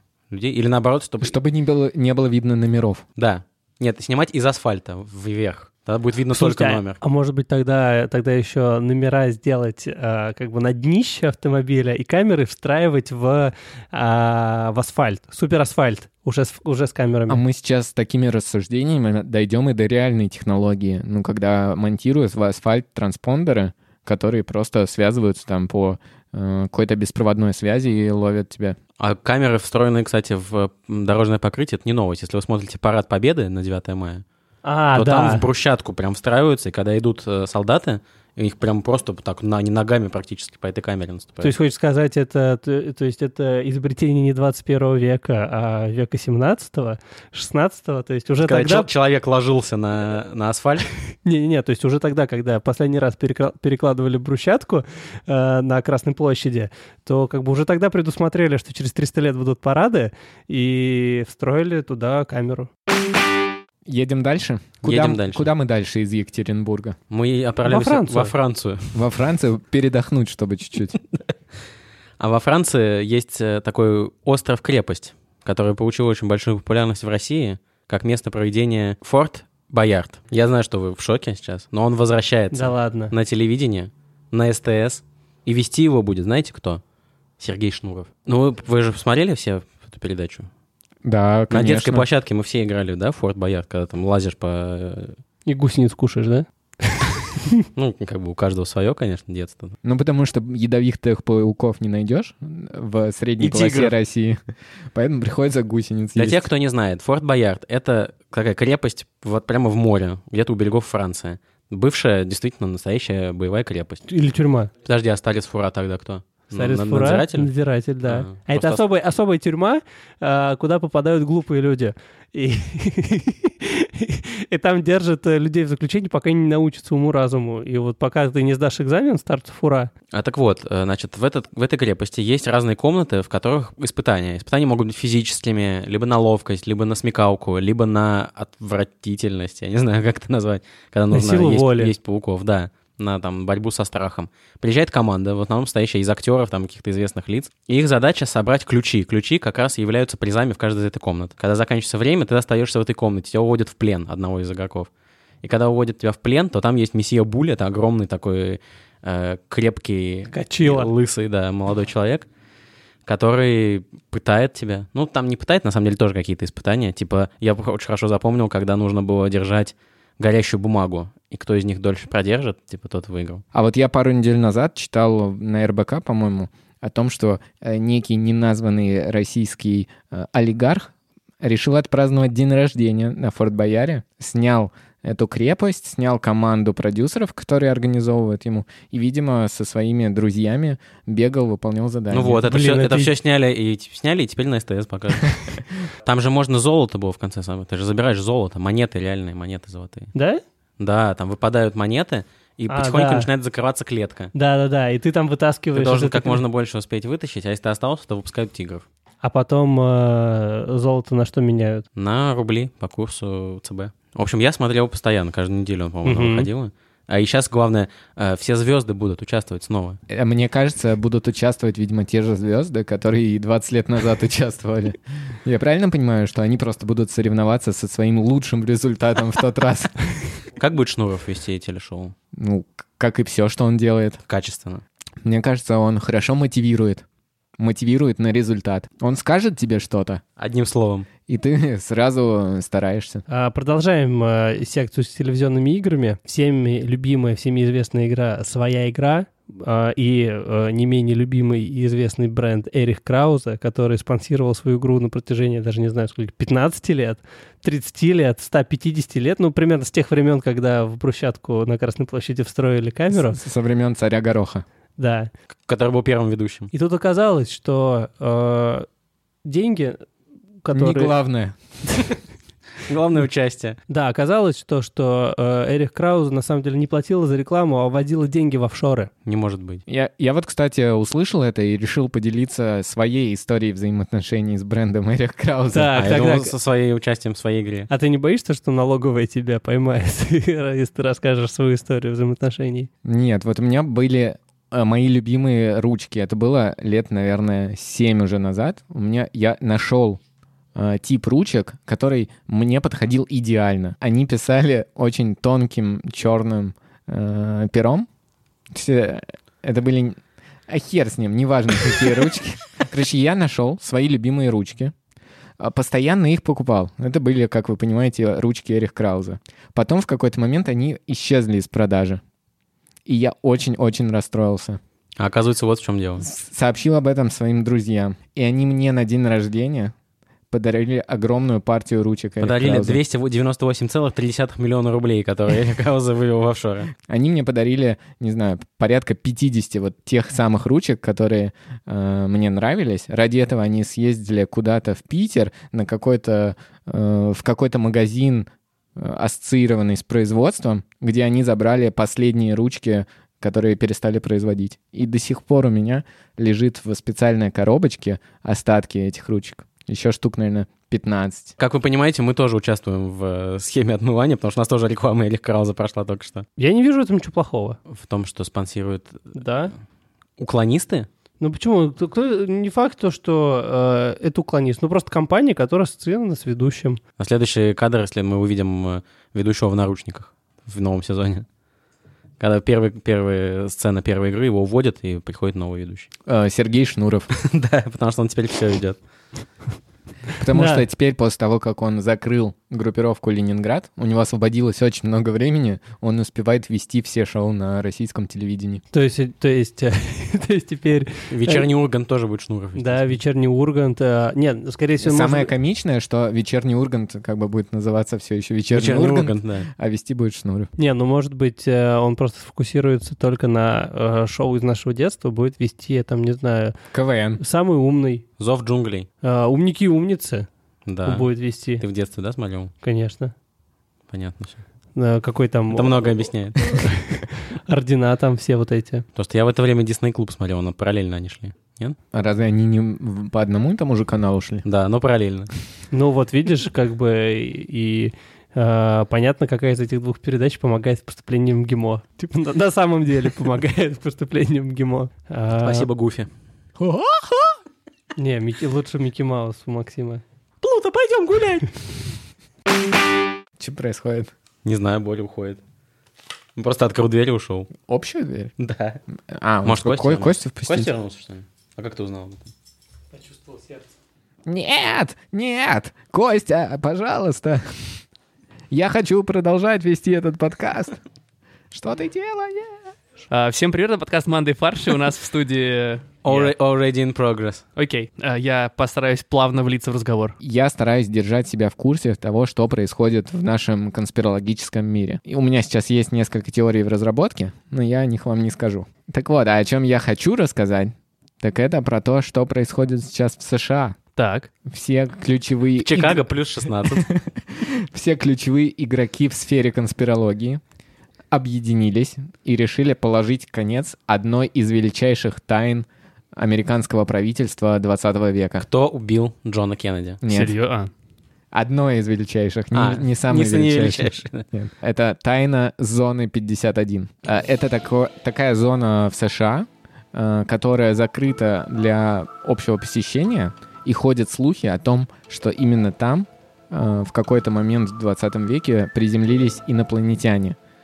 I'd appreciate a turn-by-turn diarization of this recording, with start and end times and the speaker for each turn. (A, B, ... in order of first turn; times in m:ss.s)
0:00.3-0:01.3 A
0:01.2-0:03.0 B
0:03.2-0:07.0 A
0:06.3-0:17.4 C
0:17.3-0:28.8 B
0:29.0-0:34.2 A
0:34.6-0:35.4 C
0:34.9-0:41.5 A
0:41.4-0:48.9 C
0:48.4-0:50.9 A
0:51.2-1:02.7 C
1:03.8-1:07.0 B
1:04.8-1:05.5 A
1:07.1-1:09.0 A
1:07.6-1:08.3 C
1:08.9-1:11.0 B
1:12.2-1:26.8 A
1:22.5-1:23.1 C
1:27.4-1:30.5 A
1:31.0-1:32.0 B
1:31.5-1:35.2 A
1:35.4-1:37.5 C
1:37.7-1:39.7 A
1:39.8-1:44.4 B
1:43.4-1:43.9 A
1:44.9-1:46.5 B
1:46.2-1:54.0 A
1:54.1-1:54.7 C
1:54.8-1:57.5 A
1:56.5-2:09.9 C
1:58.0-1:58.8 A
2:10.1-2:34.9 A
2:21.1-2:21.9 C
2:35.4-2:42.3 A
2:40.3-2:40.9 C
2:43.0-2:53.4 A
2:53.5-3:12.4 B
3:12.1-3:20.1 A
3:12.4-3:13.1 C
3:20.1-3:20.4 C
3:20.8-3:24.3 A
3:22.7-3:23.3 C
3:24.3-3:26.4 C
3:25.7-3:28.8 A
3:29.2-3:31.8 C
3:32.0-3:40.0 A
3:36.0-3:36.5 C
3:40.1-3:50.2 B
3:50.6-3:52.1 A
3:52.3-3:54.2 B
3:54.3-3:54.8 A
3:55.2-3:57.0 B
3:57.6-4:00.2 B
4:00.4-4:01.1 A
4:01.3-4:03.2 B
4:03.3-4:23.4 C
4:23.1-4:24.6 B
4:25.0-4:25.3 C
4:25.7-4:26.7 A
4:26.7-4:28.9 C
4:29.4-4:30.0 C
4:30.6-4:31.1 C
4:30.7-4:31.6 B
4:32.8-4:33.8 A
4:33.9-4:39.1 C
4:39.2-4:39.8 A
4:39.9-4:46.2 B
4:45.7-4:46.5 C
4:45.9-4:47.9 A
4:47.9-4:52.9 C
4:53.0-5:00.2 B
5:00.7-5:08.1 B
5:08.7-5:14.9 B
5:15.6-5:22.2 B
5:23.0-5:24.8 B
5:25.2-5:26.2 A
5:26.2-5:29.9 B
5:30.5-5:33.0 B
5:32.4-5:36.9 A
5:37.0-6:01.5 B
6:01.6-6:06.4 A
6:06.6-6:07.8 C
6:07.9-6:09.3 A
6:09.3-6:09.7 C
6:10.4-6:11.1 A
6:11.4-6:17.0 C
6:17.2-6:21.4 A
6:22.4-6:26.1 A
6:26.2-6:27.3 B
6:27.3-6:29.0 A
6:30.4-6:38.8 B
6:30.5-6:30.8 C
6:38.9-6:41.7 C
6:41.3-6:43.2 A
6:42.8-6:45.5 C
6:45.0-6:50.7 B
6:48.7-6:49.7 A
6:50.8-6:56.8 C
6:56.9-6:57.4 B
6:57.4-6:58.2 C
6:58.4-6:59.1 A
6:59.2-7:00.5 C
7:00.8-7:02.7 A
7:01.0-7:01.8 C
7:02.8-7:03.3 C
7:04.1-7:04.6 A
7:04.9-7:06.0 C
7:05.7-7:06.8 A
7:06.6-7:09.0 C
7:09.2-7:12.0 A
7:12.1-7:14.6 B
7:14.6-7:15.5 A
7:15.9-7:25.9 C
7:25.6-7:26.3 A
7:26.8-7:27.5 B
7:28.2-7:30.2 C
7:30.6-7:31.8 A
7:33.6-7:34.3 B
7:34.6-7:35.6 A
7:36.6-7:37.7 A
7:37.8-7:38.5 B
7:38.6-7:39.0 A
7:39.3-7:40.9 B
7:39.6-7:42.5 A
7:43.1-7:43.8 C
7:44.4-7:48.0 B
7:48.7-7:51.0 B
7:51.7-7:52.8 B
7:53.3-7:56.5 D
7:56.2-7:57.6 A
7:57.8-8:00.4 D
8:00.4-8:14.0 B
8:14.2-8:14.5 D
8:14.6-8:16.2 B
8:15.8-8:17.1 A
8:16.8-8:20.6 B
8:21.3-8:28.6 B
8:28.6-8:30.2 A
8:30.2-8:30.5 B
8:30.3-8:30.9 D
8:31.5-8:50.6 B
8:32.7-8:34.4 A